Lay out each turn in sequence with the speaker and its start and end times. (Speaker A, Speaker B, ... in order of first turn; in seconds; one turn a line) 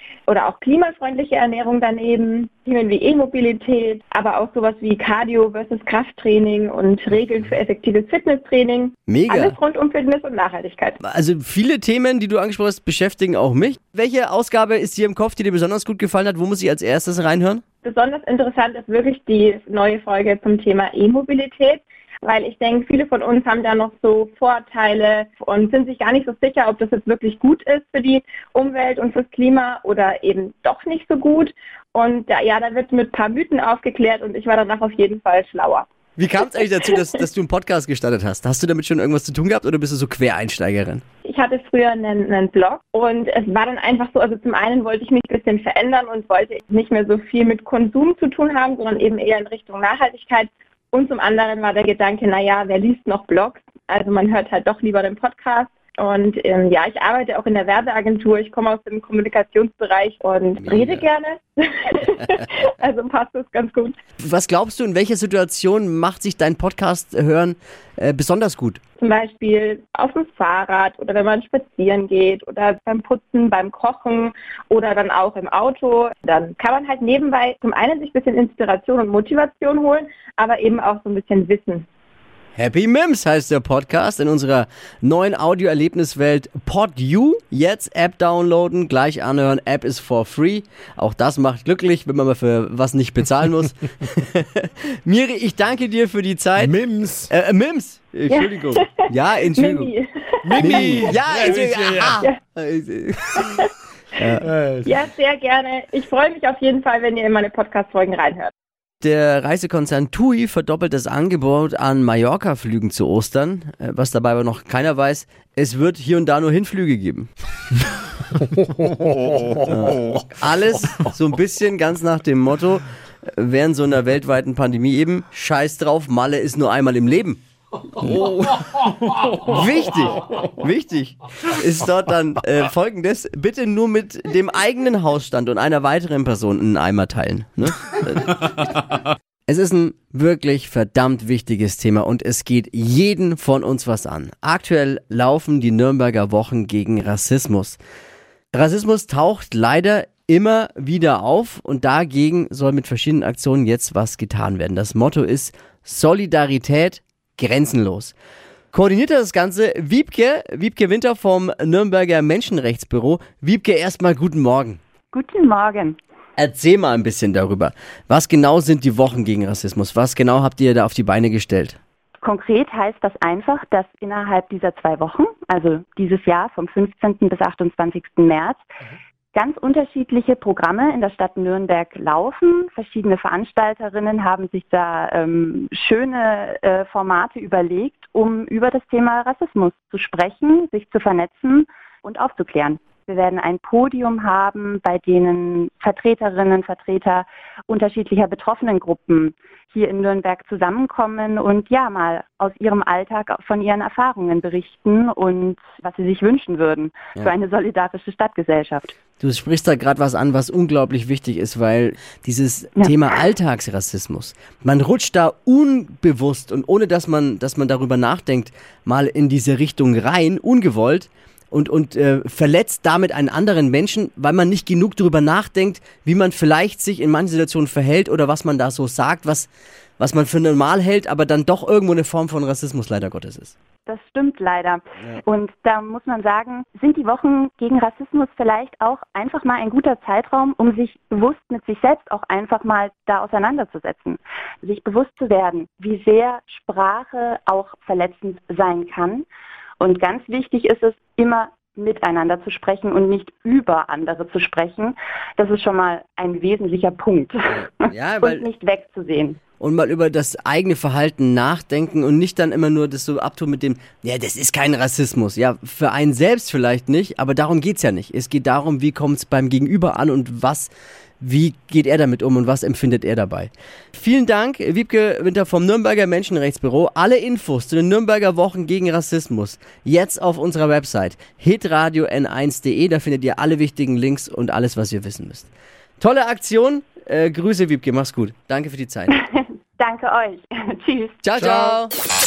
Speaker A: 0.3-11.0
Speaker B: 9.1-9.6
Speaker B: 11.0-17.6
Speaker A: 17.8-35.9
Speaker B: 36.2-41.0
Speaker A: 41.2-64.0
Speaker B: 60.6-61.0
Speaker B: 64.2-68.8
Speaker A: 69.0-81.9
Speaker B: 82.6-96.8
Speaker C: 96.6-97.3
Speaker B: 97.3-99.9
Speaker A: 98.3-98.9
Speaker A: 99.5-100.7
Speaker C: 100.4-102.2
Speaker B: 100.6-103.5
Speaker B: 104.2-104.4
Speaker C: 104.4-105.0
Speaker A: 104.9-108.5
Speaker B: 109.0-117.3
Speaker B: 119.6-127.4
Speaker B: 127.9-138.8
Speaker B: 139.5-147.8
Speaker B: 148.5-158.2
Speaker B: 158.7-164.8
Speaker D: 165.1-166.0
Speaker B: 166.4-171.8
Speaker D: 172.2-178.6
Speaker D: 179.3-208.9
Speaker B: 209.2-233.6
Speaker D: 233.9-249.3
Speaker D: 249.8-257.7
Speaker B: 257.5-258.5
Speaker D: 258.2-259.4
Speaker B: 259.6-289.2
Speaker D: 289.1-291.2
Speaker B: 291.2-291.9